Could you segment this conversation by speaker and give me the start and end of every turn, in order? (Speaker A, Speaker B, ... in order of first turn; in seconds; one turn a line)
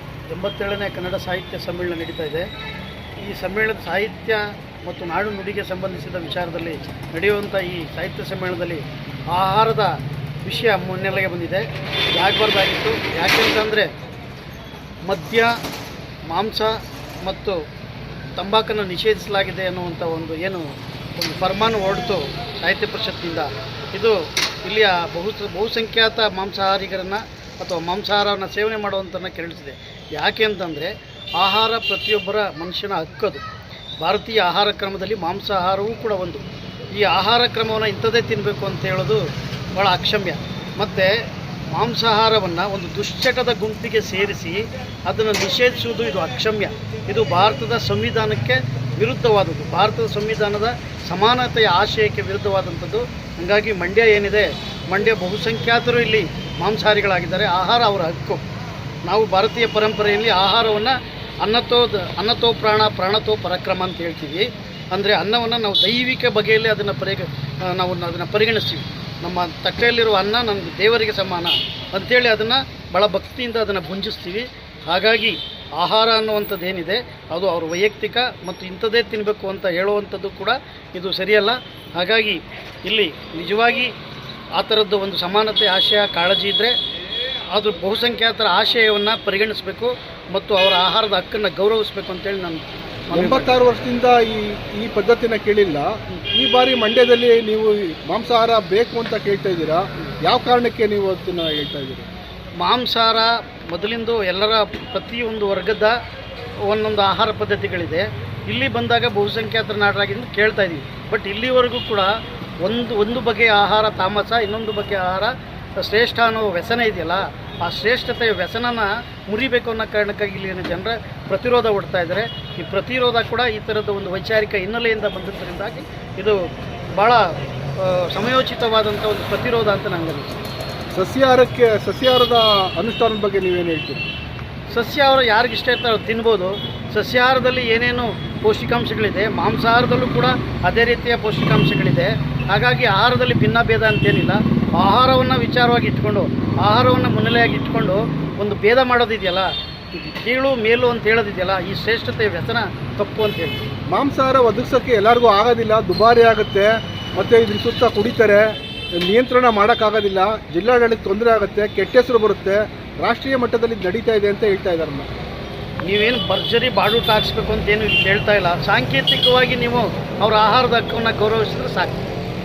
Speaker A: 0.3-2.5
Speaker A: 3.2-13.9
Speaker A: 15.1-15.6
Speaker A: 16.3-17.6
Speaker A: 18.4-33.4
Speaker A: 34.0-39.2
Speaker A: 39.7-41.1
Speaker A: 41.7-58.4
Speaker A: 59.0-83.9
Speaker A: 84.6-86.8
Speaker A: 87.5-93.6
Speaker B: 93.1-102.1
Speaker A: 102.6-106.0
Speaker A: 106.7-126.4
Speaker A: 126.9-127.2
Speaker A: 127.8-130.4
Speaker B: 130.9-134.1
Speaker A: 134.7-153.6
Speaker B: 153.9-165.1
Speaker A: 165.8-172.0